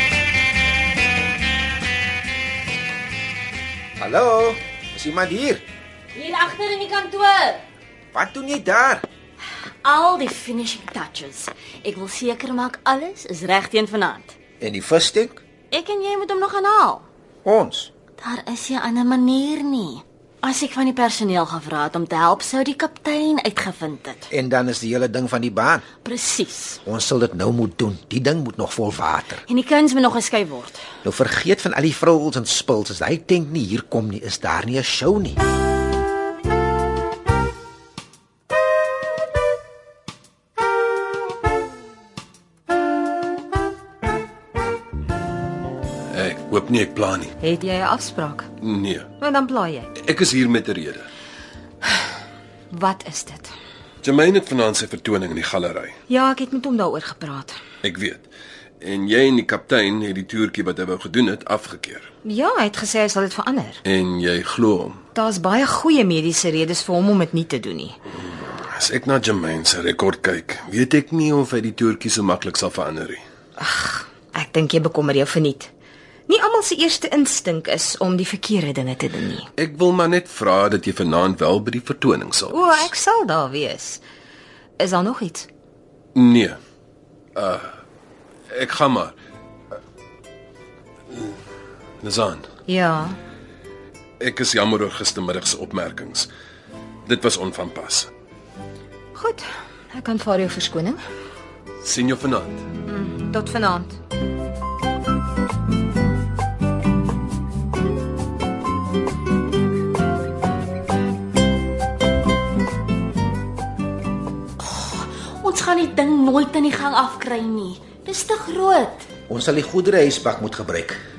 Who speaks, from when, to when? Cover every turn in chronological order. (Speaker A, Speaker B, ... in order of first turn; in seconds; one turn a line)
Speaker A: 4.0-5.6
Speaker B: 6.2-7.6
Speaker A: 8.1-9.1
Speaker B: 9.8-14.3
Speaker A: 14.6-15.4
Speaker B: 15.7-17.1
Speaker A: 17.4-17.9
Speaker B: 18.2-24.3
Speaker A: 24.3-25.9
Speaker B: 26.0-26.8
Speaker A: 26.9-29.4
Speaker B: 29.5-30.8
Speaker A: 31.0-35.4
Speaker C: 46.1-47.3
Speaker D: 47.4-48.5
Speaker C: 48.6-49.1
Speaker D: 49.2-49.9
Speaker C: 50.0-51.1
Speaker D: 52.7-53.5
Speaker C: 54.0-56.0
Speaker D: 56.1-57.5
Speaker C: 57.8-58.3
Speaker C: 58.8-62.1
Speaker D: 62.2-63.8
Speaker C: 63.9-65.0
Speaker D: 65.2-68.0
Speaker C: 68.2-73.2
Speaker D: 73.6-75.7
Speaker D: 76.3-79.5
Speaker C: 79.6-82.9
Speaker D: 82.5-84.0
Speaker D: 84.8-85.5
Speaker C: 86.2-86.6
Speaker C: 87.4-87.7
Speaker C: 88.5-89.2
Speaker C: 92.0-92.5
Speaker D: 92.7-93.2
Speaker C: 94.2-96.3
Speaker C: 97.1-98.1
Speaker D: 99.2-101.0
Speaker C: 101.8-102.6
Speaker D: 102.9-104.0
Speaker B: 114.6-119.1
Speaker A: 119.3-121.0